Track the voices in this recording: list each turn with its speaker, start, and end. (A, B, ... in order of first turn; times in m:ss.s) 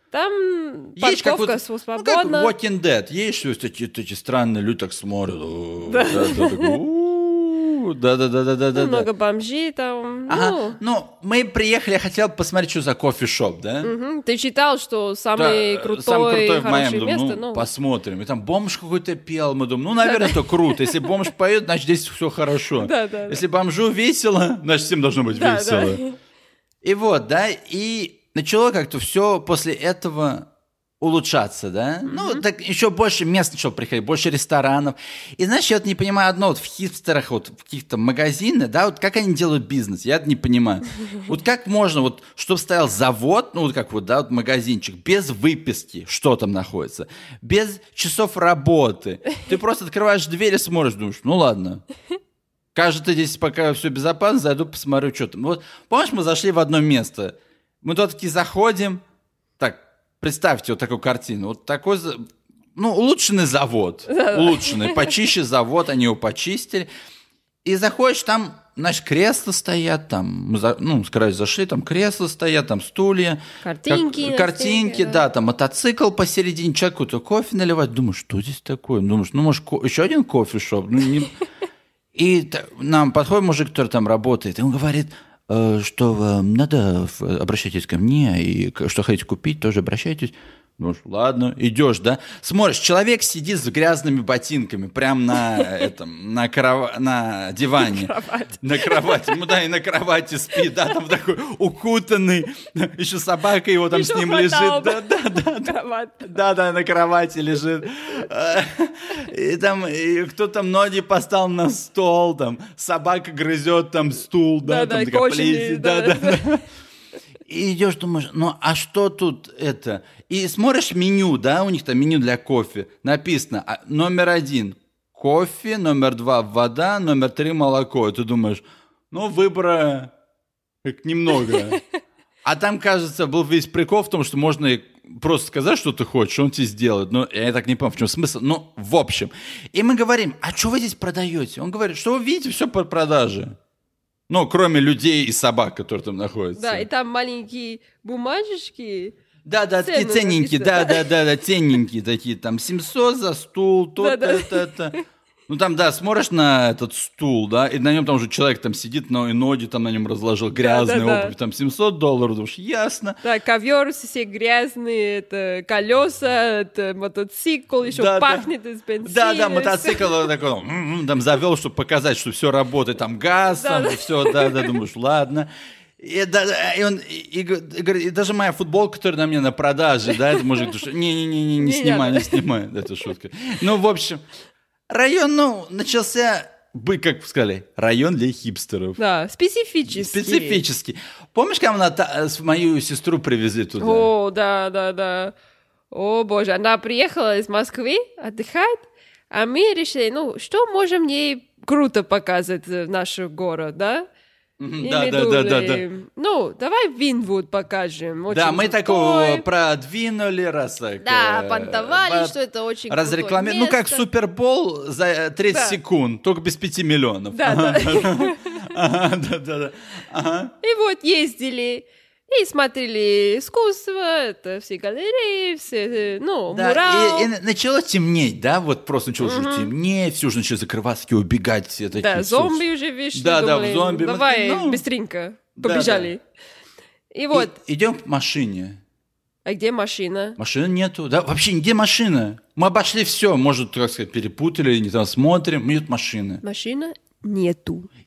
0:00.1-0:02.5 A
0:01.0-0:09.1 B
0:05.9-0:06.8 A
0:08.8-0:10.8 A
0:10.3-0:13.9 B
0:13.8-0:17.7 A
0:15.4-0:26.0 B
0:20.0-0:21.1 A
0:22.8-0:23.4 A
0:25.3-0:26.2 A
0:26.8-0:30.5 B
0:31.0-0:51.8 B
0:32.1-0:32.4 A
0:52.7-0:59.0 B
0:59.6-1:02.2 B
1:02.8-1:06.9 B
1:04.1-1:05.1 A
1:07.6-1:21.4 B
1:13.6-1:15.2 A
1:22.2-1:56.6 B
1:35.6-1:35.8 A
1:37.8-1:39.4 A
1:43.9-1:46.3 A
1:54.6-1:56.4 A
1:57.5-2:10.1 B
2:10.8-2:11.8 B
2:11.5-2:11.8 A
2:12.4-2:23.5 B
2:24.3-2:26.9 B
2:26.6-2:29.2 A
2:29.4-2:35.0 B
2:29.8-2:31.1 A
2:34.0-2:35.0 A
2:35.5-2:43.2 B
2:40.5-2:41.3 A
2:43.2-2:50.3 A
2:47.9-2:48.5 B
2:49.0-2:55.5 B
2:53.5-2:54.7 A
2:56.0-3:04.2 B
3:00.1-3:00.4 A
3:01.6-3:02.4 A
3:04.9-3:09.0 B
3:09.0-3:10.6 A
3:09.9-3:14.1 B
3:13.8-3:15.4 A
3:15.9-3:24.1 A
3:24.6-3:25.8 B
3:24.8-3:29.4 A
3:28.3-3:32.4 B
3:31.0-3:34.0 A
3:32.9-3:40.5 B
3:35.5-3:35.8 A
3:37.3-3:38.6 A
3:40.6-3:47.3 A
3:46.5-3:54.8 B
3:49.2-3:49.7 A
3:51.9-3:56.2 A
3:55.6-3:56.1 B
3:57.1-3:57.5 A
3:57.3-3:58.8 B
3:59.4-4:00.4 A
4:00.4-4:06.4 B
4:06.4-4:07.9 A